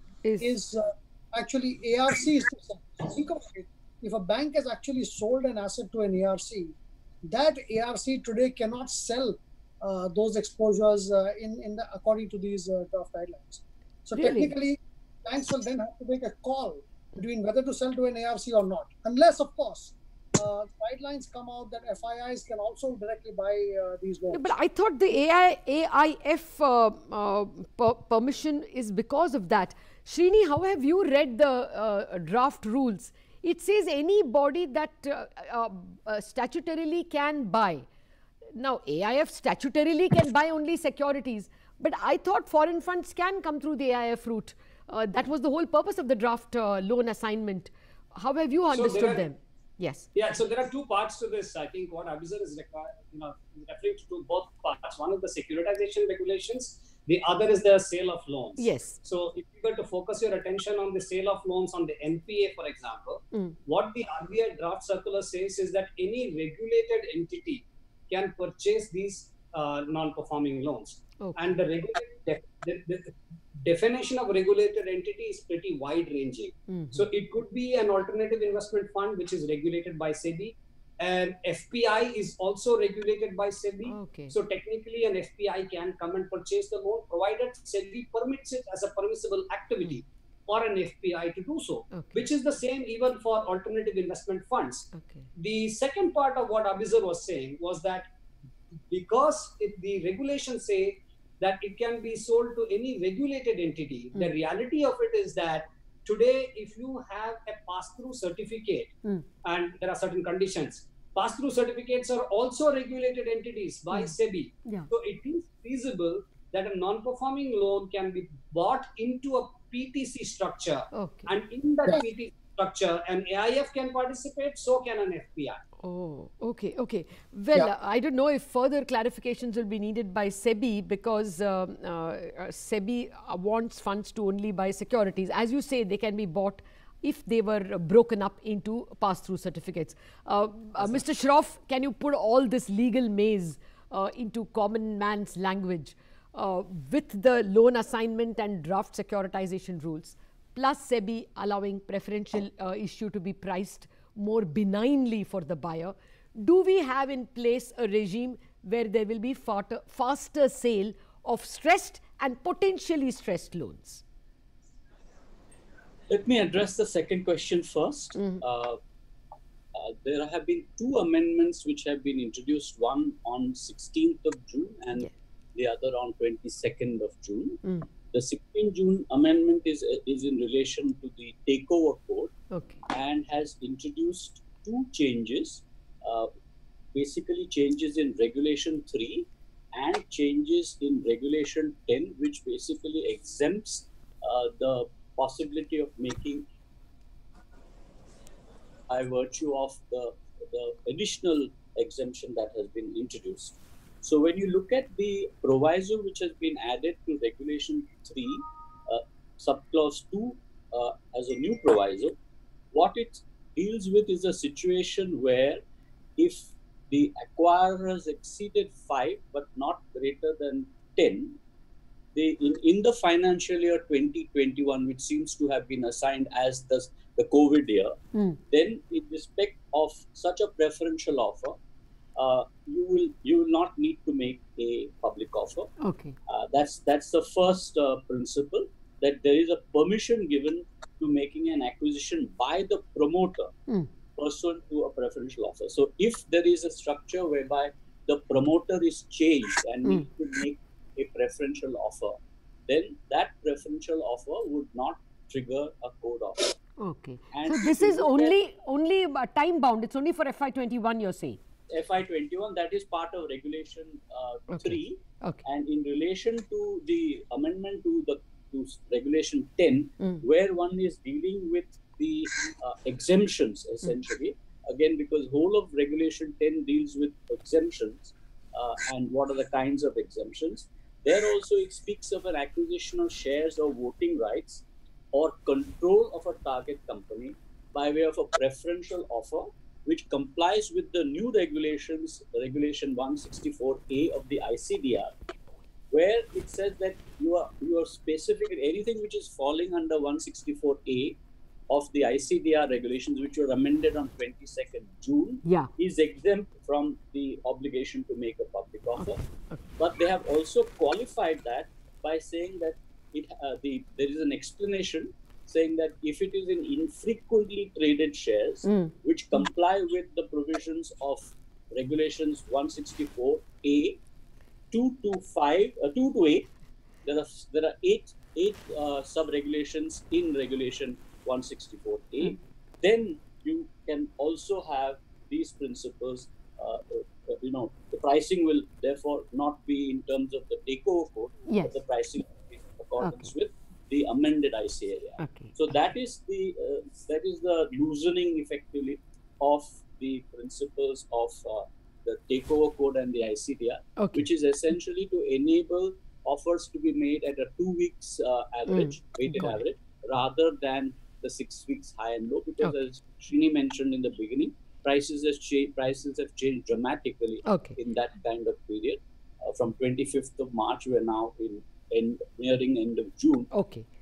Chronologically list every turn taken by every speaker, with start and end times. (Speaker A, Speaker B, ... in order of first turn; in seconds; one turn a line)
Speaker A: 0.2-0.6
Speaker B: 0.4-24.4
Speaker A: 14.2-14.5
Speaker A: 24.3-37.9
Speaker A: 38.5-50.1
Speaker C: 48.7-49.3
Speaker C: 50.1-98.1
Speaker A: 58.6-59.0
Speaker A: 71.2-71.6
Speaker A: 76.7-77.1
Speaker A: 83.9-84.3
Speaker C: 98.9-125.6
Speaker A: 120.9-121.3
Speaker A: 125.8-164.0
Speaker D: 166.1-168.8
Speaker D: 169.7-182.3
Speaker A: 182.5-182.8
Speaker D: 182.9-186.3
Speaker D: 186.9-196.5
Speaker D: 198.9-212.2
Speaker D: 212.7-215.6
Speaker D: 216.2-221.4
Speaker D: 222.2-228.0
Speaker A: 228.1-228.4
Speaker D: 228.5-231.6
Speaker D: 232.2-235.7
Speaker A: 235.8-236.2
Speaker D: 236.3-243.5
Speaker D: 244.2-252.2
Speaker D: 252.7-256.6
Speaker A: 256.8-261.4
Speaker D: 257.3-258.4
Speaker D: 261.7-295.1
Speaker A: 264.5-265.4
Speaker D: 295.9-301.2
Speaker D: 301.7-309.2
Speaker A: 309.0-309.6
Speaker D: 309.8-324.0
Speaker A: 318.7-318.9
Speaker D: 324.7-326.5
Speaker D: 327.1-373.5
Speaker A: 341.5-341.8
Speaker A: 345.2-345.5
Speaker A: 354.0-354.3
Speaker A: 358.7-359.6
Speaker A: 367.5-367.8
Speaker A: 373.5-373.9